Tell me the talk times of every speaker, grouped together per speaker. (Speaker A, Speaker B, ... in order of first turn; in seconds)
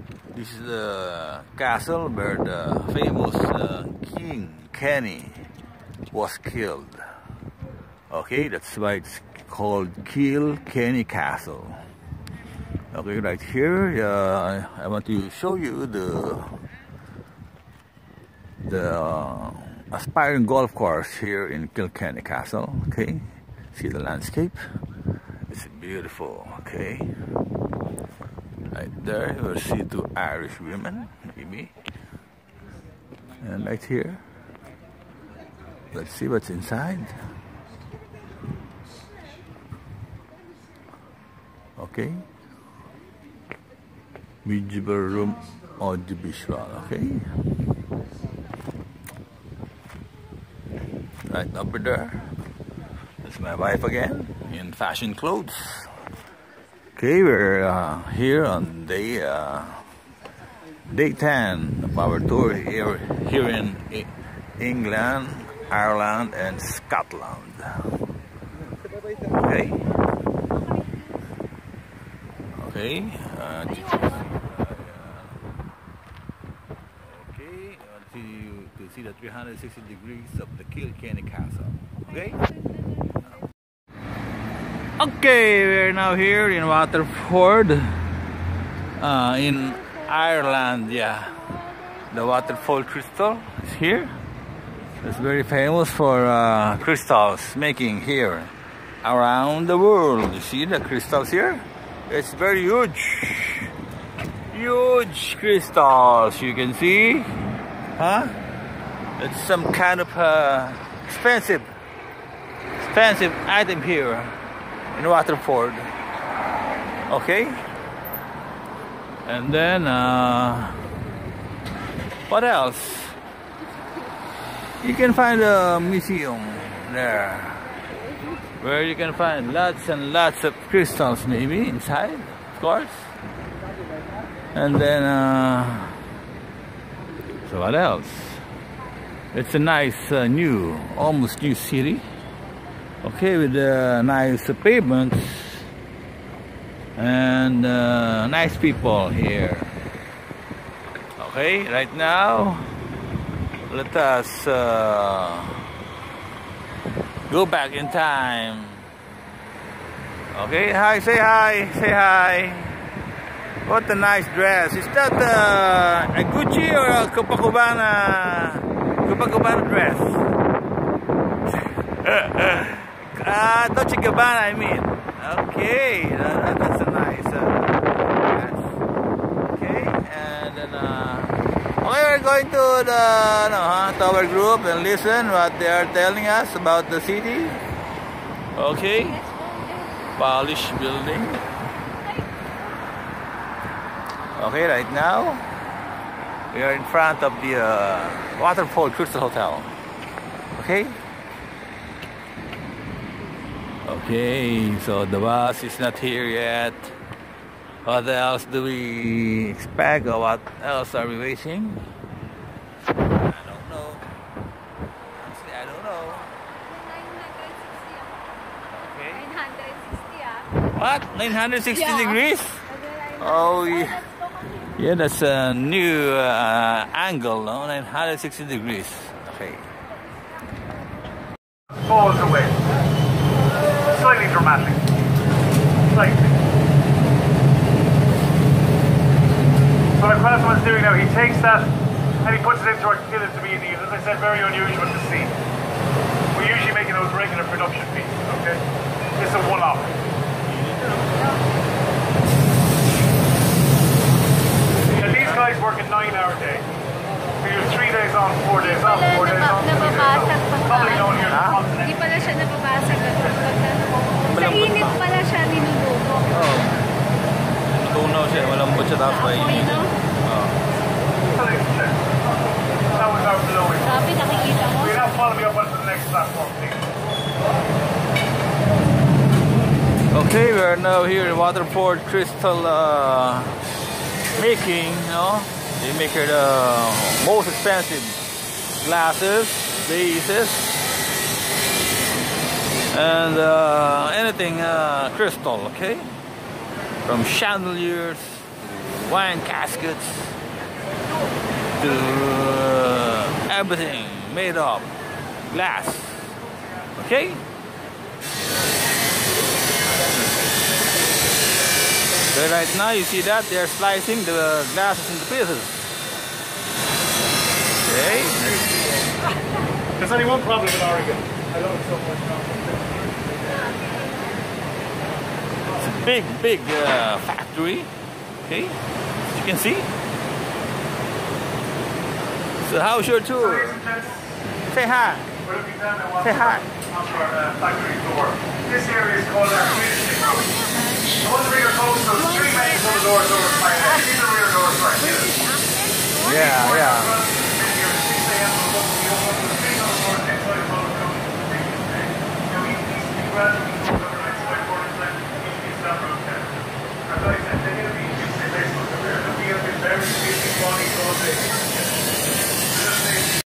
Speaker A: 0.3-5.5, 6.1-7.0, 8.1-11.8, 12.9-16.6, 18.6-24.6, 25.5-27.1, 28.7-31.7, 33.4-34.2, 35.9-37.2, 41.8-42.3, 44.5-47.2, 51.3-52.3, 53.2-55.9, 57.0-59.8, 60.9-67.8, 69.3-69.9, 72.5-75.5, 77.0-82.5, 85.0-88.1, 89.0-94.2, 95.0-103.7, 104.5-108.3, 109.2-111.7, 112.8-114.4, 114.9-115.9, 117.1-117.6, 119.3-120.9, 122.3-123.2, 124.8-127.7, 128.6-133.1, 134.5-136.0, 137.4-138.4, 139.3-142.1, 143.0-145.7, 147.0-149.7, 151.2-152.7, 153.7-155.7, 157.3-158.9, 160.3-162.8, 163.7-170.4, 171.7-178.8, 179.5-187.6, 188.6-189.3, 190.2-191.4, 194.3-195.5, 196.5-199.7, 200.6-201.0, 203.8-207.0, 207.9-211.8, 213.2-214.1, 215.1-216.3, 218.7-219.4, 220.8-229.7, 261.2-261.7, 264.2-265.2, 266.3-266.8, 267.7-270.6, 280.1-283.6, 284.3-288.2, 288.8-290.8, 292.9-296.1, 297.0-300.4, 301.8-305.0, 305.5-306.4, 307.0-307.4, 312.3-315.8, 317.8-318.9, 325.7-329.9, 332.6-333.9, 334.7-335.3, 336.2-336.7, 346.2-347.2
Speaker B: 189.3-189.9, 216.7-218.1, 219.2-220.5, 222.9-223.7, 259.2-260.9, 261.9-263.8, 264.4-266.2, 274.1-274.7, 340.7-341.1, 342.4-342.9, 345.2-346.2
Speaker C: 231.8-232.6, 233.8-234.8, 235.9-236.3, 240.0-245.3, 246.3-248.6, 249.2-249.9, 254.9-256.7, 257.4-262.1, 271.3-272.1, 272.9-274.1, 274.6-276.9, 320.0-323.0, 333.4-334.2, 335.4-340.5, 341.1-345.4, 346.3-362.0, 362.7-363.4